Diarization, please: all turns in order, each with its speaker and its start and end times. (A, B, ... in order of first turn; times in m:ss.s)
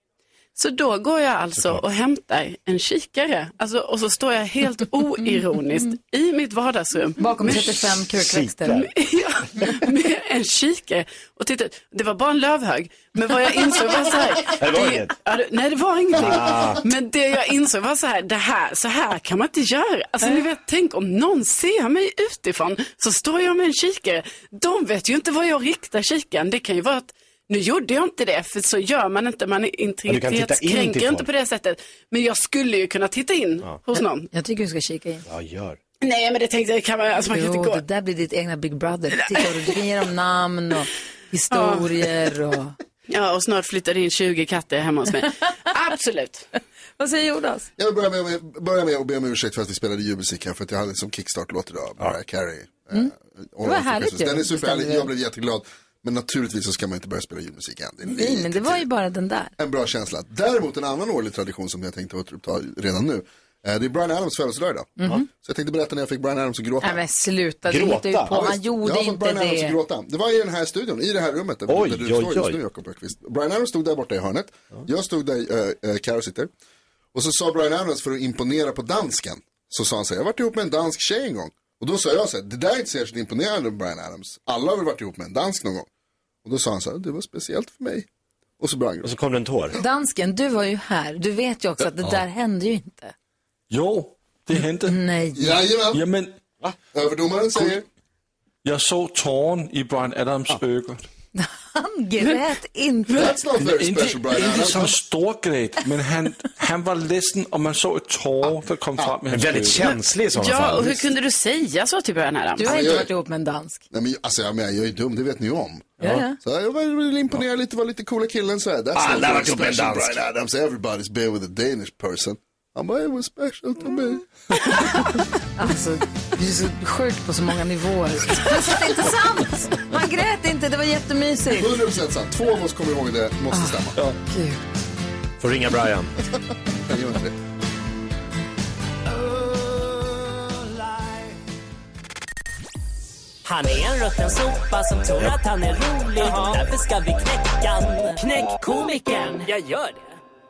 0:00.6-0:07.7 A
0:01.6-0:01.8 B
0:07.2-0:08.9 C
0:08.2-0:08.9 B
0:08.7-0:34.3 A
0:14.5-0:15.1 B
0:16.1-0:16.8 B
0:30.1-0:31.3 B
0:34.3-0:35.2 C
0:35.3-0:35.8 B
0:36.0-0:37.8 A
0:37.3-0:42.8 C
0:41.5-0:41.9 A
0:43.1-0:46.4 A
0:47.0-0:47.7 C
0:47.8-0:58.8 D
0:53.6-0:55.1 C
0:58.0-0:59.5 C
0:59.6-1:07.0 D
1:05.0-1:05.2 C
1:06.8-1:09.8 C
1:07.7-1:08.3 B
1:08.3-1:16.5 D
1:11.7-1:12.6 B
1:17.1-1:25.9 D
1:26.4-1:28.1 D
1:28.6-1:29.1 D
1:29.0-1:29.8 B
1:29.8-1:33.1 C
1:33.7-1:35.0 E
1:34.8-1:35.5 C
1:35.3-1:36.0 D
1:35.9-1:36.4 E
1:36.9-1:37.8 D
1:38.6-1:41.0 E
1:41.3-1:43.3 C
1:43.1-1:44.9 D
1:43.6-1:49.9 E
1:49.3-1:51.0 B
1:49.8-1:52.7 A
1:52.6-1:53.8 C
1:52.6-1:53.1 D
1:53.9-2:04.3 D
1:56.0-1:56.3 C
1:58.9-2:00.2 B
2:05.6-2:11.8 C
2:11.5-2:14.0 D
2:13.5-2:14.6 C
2:15.4-2:16.1 B
2:16.8-2:17.4 D
2:23.4-2:30.2 F